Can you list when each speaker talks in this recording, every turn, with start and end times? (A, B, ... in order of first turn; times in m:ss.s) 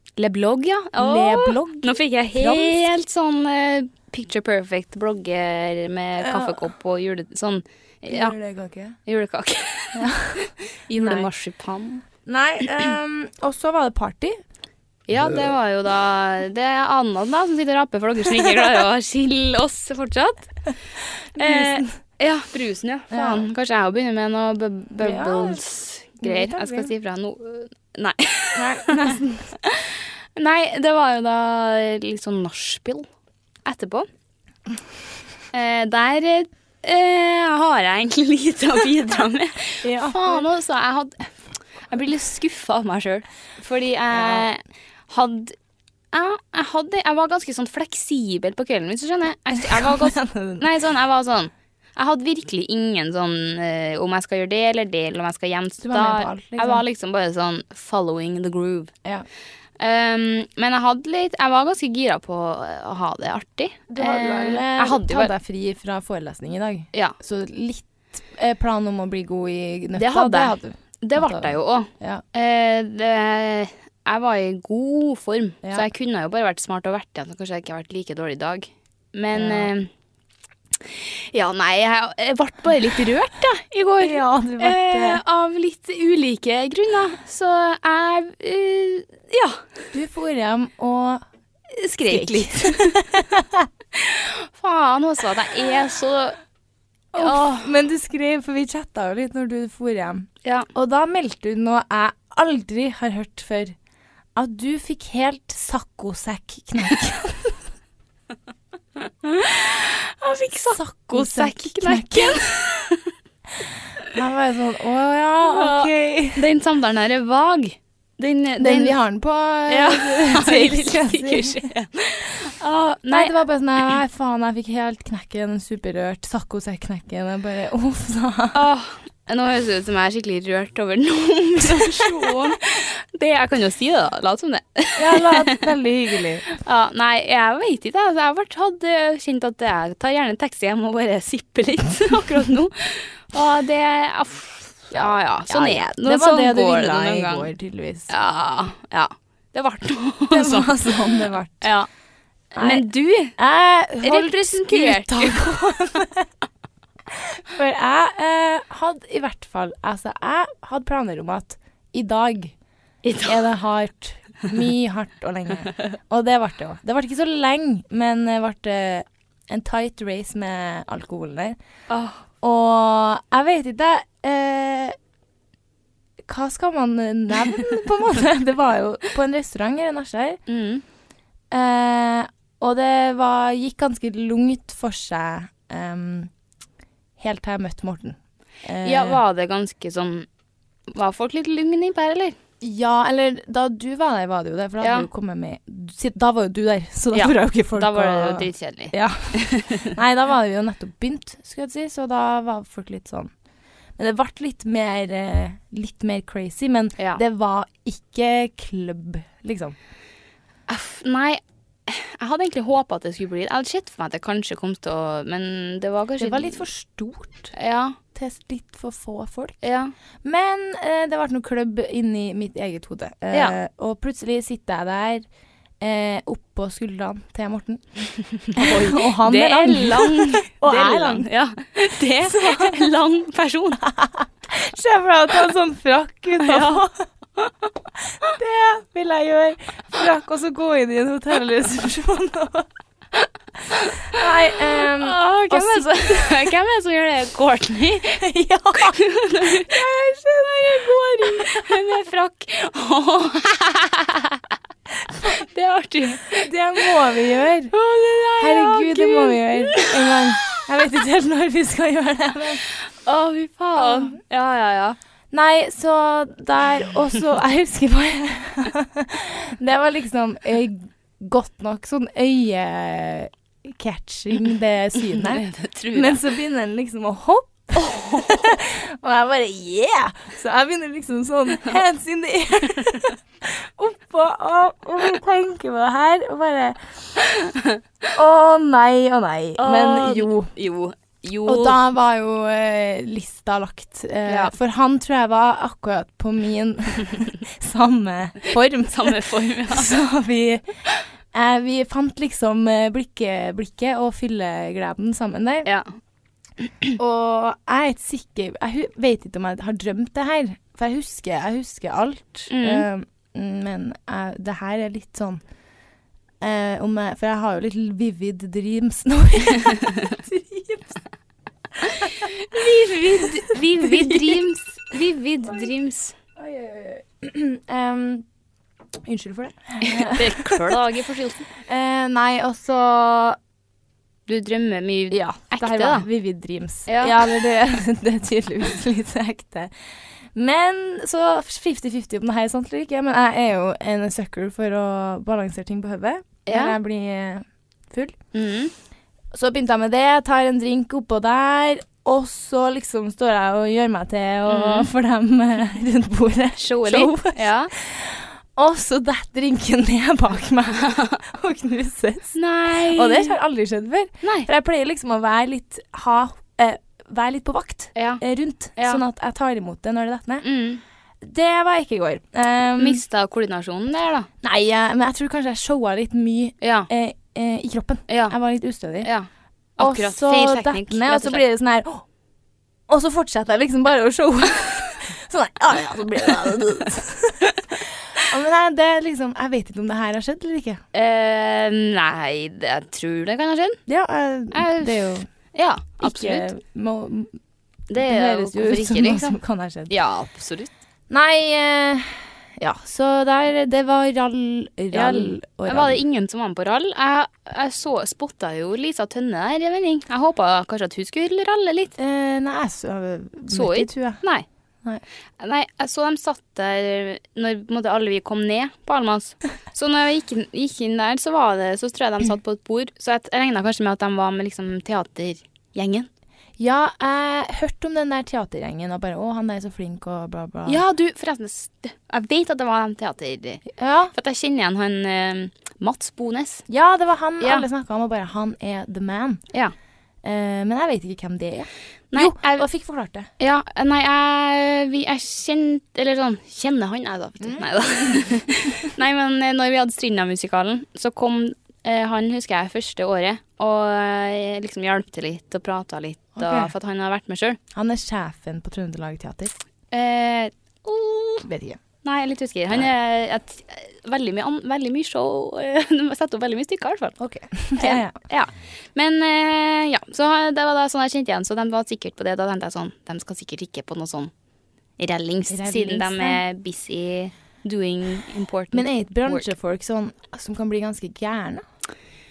0:00.2-0:08.4 A
0:01.0-0:02.9 B
0:06.2-0:06.6 B
0:08.1-0:09.0 B
0:09.1-0:12.0 A
0:10.0-0:11.3 B
0:12.3-0:14.4 B
0:15.1-0:20.5 A
0:21.4-0:21.9 B
0:21.4-0:33.1 A
0:23.1-0:23.5 B
0:25.0-0:25.6 B
0:26.2-0:26.9 B
0:28.6-0:29.5 B
0:33.7-0:34.1 A
0:35.5-0:41.2 A
0:39.8-0:40.4 B
0:41.9-0:45.6 A
0:44.1-0:44.5 B
0:46.1-0:58.9 A
0:49.5-0:50.7 B
0:55.8-0:56.8 B
0:59.8-1:05.3 A
1:03.9-1:12.2 B
1:10.0-1:19.9 A
1:19.4-1:19.7 B
1:20.8-1:29.6 A
1:24.0-1:25.2 B
1:29.9-1:31.2 B
1:31.7-1:33.1 A
1:32.1-1:33.7 B
1:34.0-1:36.4 A
1:37.1-1:43.8 B
1:37.2-1:37.7 A
1:40.4-1:40.7 A
1:44.4-1:47.6 B
1:49.0-1:53.1 A
1:50.7-1:52.5 B
1:54.1-1:56.4 B
1:55.4-1:59.0 A
1:58.6-2:01.6 B
1:59.7-2:03.4 A
2:03.1-2:08.6 B
2:08.5-2:15.7 A
2:11.7-2:12.4 B
2:15.0-2:16.5 B
2:16.5-2:27.5 A
2:24.9-2:28.1 B
2:28.1-2:31.9 A
2:30.3-2:31.7 B
2:32.6-2:32.8 B
2:32.6-2:33.4 A
2:33.4-2:36.3 B
2:34.0-2:35.7 A
2:37.1-2:42.6 B
2:43.0-2:43.5 A
2:43.2-2:51.6 B
2:51.9-2:52.2 A
2:52.4-2:55.0 B
2:56.2-3:00.4 B
3:00.5-3:00.8 A
3:01.5-3:06.3 B
3:07.2-3:09.2 B
3:08.8-3:10.3 A
3:10.9-3:12.4 A
3:12.6-3:23.3 B
3:14.8-3:15.1 A
3:17.1-3:19.9 A
3:24.0-3:29.8 B
3:30.7-3:36.6 A
3:36.2-3:37.5 B
3:37.5-3:38.0 A
3:38.1-3:39.6 B
3:39.6-3:39.9 A
3:40.2-3:45.3 B
3:45.8-3:48.0 B
3:48.4-3:53.8 A
3:48.5-3:51.3 B
3:52.2-3:52.9 B
3:53.8-3:57.1 B
3:56.4-3:56.8 A
3:57.4-3:57.7 A
3:58.2-4:02.7 B
4:03.7-4:04.2 A
4:04.0-4:06.5 B
4:04.7-4:09.8 A
4:08.2-4:11.8 B
4:10.4-4:14.4 A
4:15.1-4:16.9 A
4:16.3-4:17.7 B
4:17.7-4:20.6 A
4:18.4-4:22.6 B
4:22.7-4:25.0 A
4:23.8-4:24.2 B
4:25.3-4:47.2 B
4:35.1-4:36.2 A
4:37.8-4:38.6 A
4:48.1-4:50.5 B
4:49.6-4:51.8 A
4:51.5-5:00.6 B
4:54.3-4:54.5 A
4:58.9-4:59.9 A
5:01.3-5:05.7 B
5:07.0-5:15.4 B
5:12.5-5:12.8 A
5:16.4-5:21.0 B
5:21.8-5:24.4 B
5:21.8-5:26.2 A
5:25.4-5:25.7 B
5:26.4-5:28.3 B
5:29.0-5:30.8 B
5:29.8-5:31.5 A
5:31.5-5:33.4 B
5:34.3-5:36.1 A
5:35.1-5:39.7 B
5:36.9-5:37.2 A
5:40.3-5:48.2 B
5:46.5-5:46.8 A
5:48.3-5:48.7 A
5:49.3-6:10.4 B
5:54.5-5:54.9 A
5:56.6-5:57.7 A
6:00.9-6:01.2 A
6:02.4-6:03.4 A
6:04.2-6:04.5 A
6:08.0-6:08.2 A
6:08.8-6:09.0 A
6:10.4-6:10.8 A
6:11.2-6:13.0 B
6:12.8-6:14.3 A
6:14.4-6:19.1 B
6:16.6-6:16.9 A
6:18.1-6:18.4 A
6:19.0-6:21.4 A
6:19.8-6:22.0 B
6:22.9-6:30.8 B
6:30.9-6:33.8 A
6:33.9-6:35.3 B
6:34.5-6:36.5 A
6:36.0-6:37.4 B
6:37.9-6:39.4 A
6:38.0-6:39.9 B
6:39.9-6:40.7 A
6:41.1-6:46.0 B
6:44.9-6:51.9 A
6:52.0-6:54.2 B
6:53.5-6:54.4 A
6:55.4-7:06.1 A
7:06.6-7:10.8 B
7:10.7-7:16.6 A
7:13.7-7:14.1 B
7:16.7-7:19.4 B
7:17.4-7:17.7 A
7:20.2-7:23.3 B
7:22.1-7:22.6 A
7:23.4-7:37.6 A
7:27.4-7:28.3 B
7:36.4-7:36.7 B
7:37.7-7:39.6 B
7:39.9-7:41.5 A
7:41.4-7:41.8 B
7:42.0-7:47.2 A
7:47.2-7:48.2 B
7:47.8-7:54.3 A
7:55.0-7:59.5 A
7:55.5-7:56.4 B
7:58.7-8:01.6 B